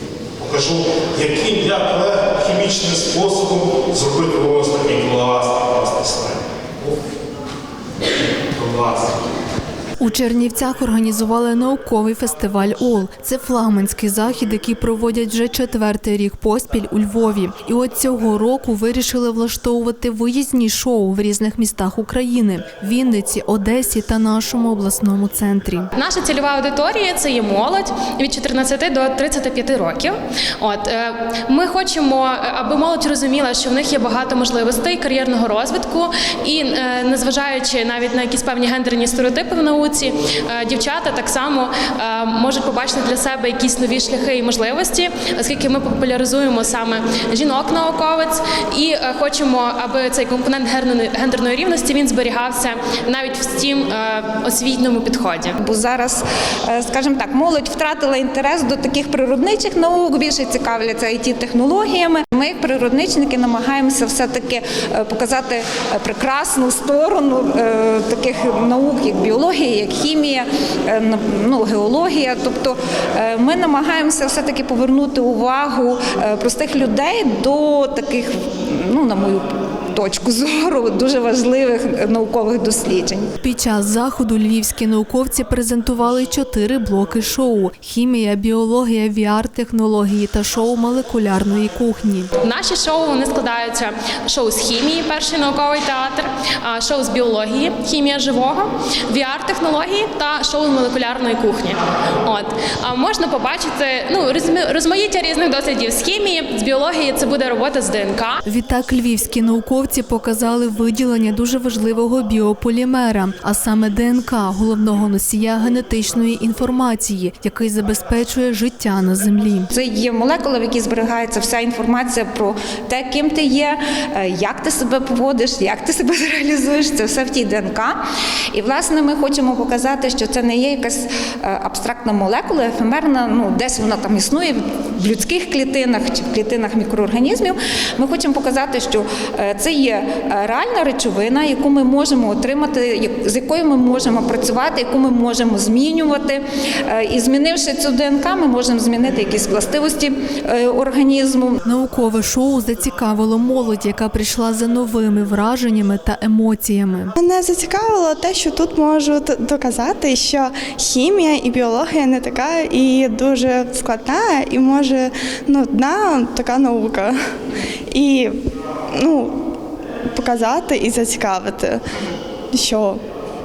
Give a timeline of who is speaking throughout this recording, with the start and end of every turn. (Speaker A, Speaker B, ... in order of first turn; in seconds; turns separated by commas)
Speaker A: 0.4-6.4, Speaker A: 8.6-9.1, Speaker B: 10.0-25.9, Speaker C: 25.9-55.6, Speaker D: 55.6-83.3, Speaker B: 83.4-92.3, Speaker C: 92.4-108.4, Speaker B: 108.5-119.7, Speaker D: 119.7-128.0, Speaker D: 128.5-151.6, Speaker B: 151.6-157.1, Speaker E: 157.2-167.1, Speaker E: 167.9-168.3, Speaker E: 169.0-169.3, Speaker E: 170.1-171.8, Speaker E: 172.5-173.0